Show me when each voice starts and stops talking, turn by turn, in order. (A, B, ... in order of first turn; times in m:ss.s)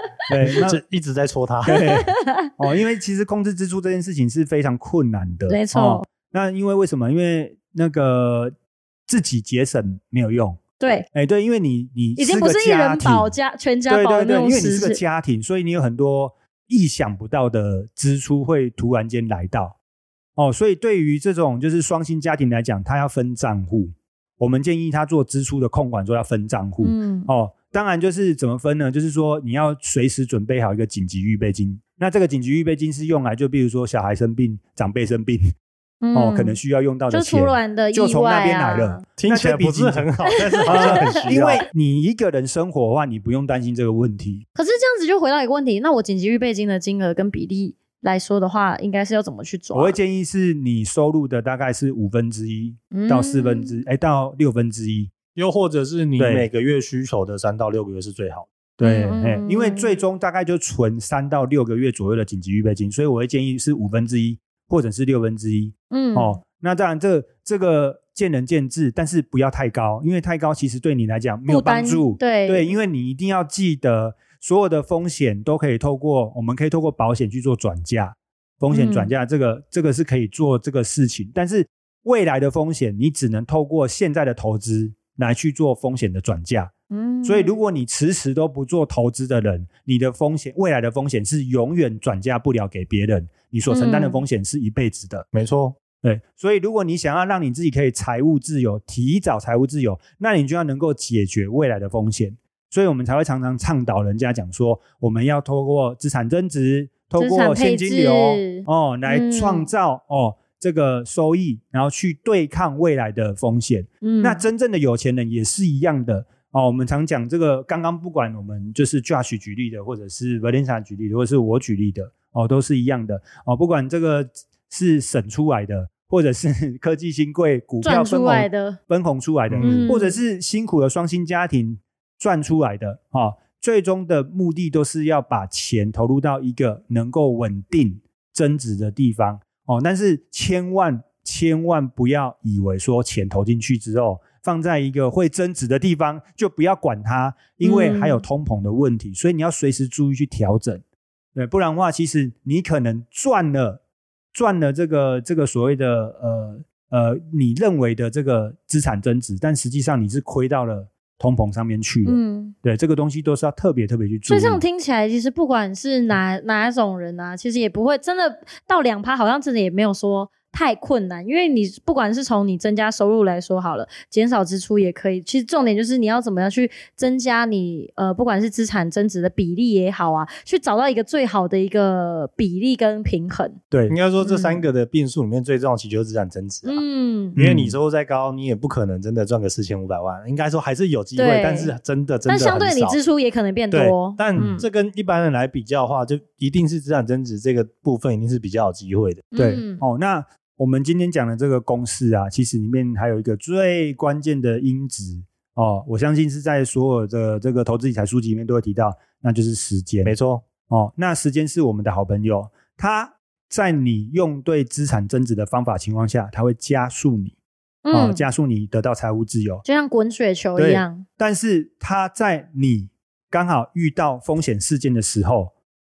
0:00.3-0:00.8 A
0:00.4-0:01.8 B
0:01.6-0:08.5 A
0:01.7-0:02.5 C
0:05.5-0:06.0 C
0:09.1-0:10.6 A
0:10.8-0:11.1 C
0:11.1-0:13.4 A
0:12.2-0:15.0 C
0:13.9-0:19.7 A
0:20.4-0:35.4 A
0:26.8-0:27.3 C
0:36.0-0:36.6 C
0:36.1-0:40.1 A
0:37.1-0:39.0 C
0:39.2-0:41.6 B
0:40.6-0:41.0 C
0:40.6-0:44.4 A
0:44.6-0:50.0 C
0:49.7-0:55.1 A
0:52.9-0:53.8 C
0:55.4-0:58.5 B
0:56.2-0:56.5 A
0:58.8-1:26.7 A
0:58.8-1:00.0 C
1:05.9-1:06.4 C
1:11.5-1:12.7 C
1:18.7-1:19.1 C
1:26.9-1:27.5 C
1:27.2-1:35.3 A
1:33.7-1:34.2 C
1:35.3-1:35.8 B
1:36.0-2:30.8 A
1:47.2-1:49.7 C
1:54.0-1:54.4 C
2:07.8-2:08.8 C
2:09.5-2:09.9 B
2:09.6-2:10.2 C
2:27.6-2:28.2 C
2:31.3-2:33.8 A
2:34.3-2:44.6 A
2:42.0-2:42.5 C
2:44.3-3:03.6 C
3:03.7-3:04.0 A
3:03.9-3:06.8 B
3:04.2-3:04.6 C
3:06.6-3:07.4 C
3:07.4-3:07.8 A
3:07.4-3:13.0 B
3:11.2-3:11.7 C
3:12.2-3:14.6 C
3:13.7-3:19.2 B
3:14.4-3:14.6 A
3:19.3-3:19.8 C
3:19.4-3:30.1 A
3:30.0-3:30.4 B
3:30.7-3:37.3 A
3:37.8-3:38.2 C
3:37.9-3:39.6 A
3:39.6-3:41.0 C
3:40.6-3:45.5 A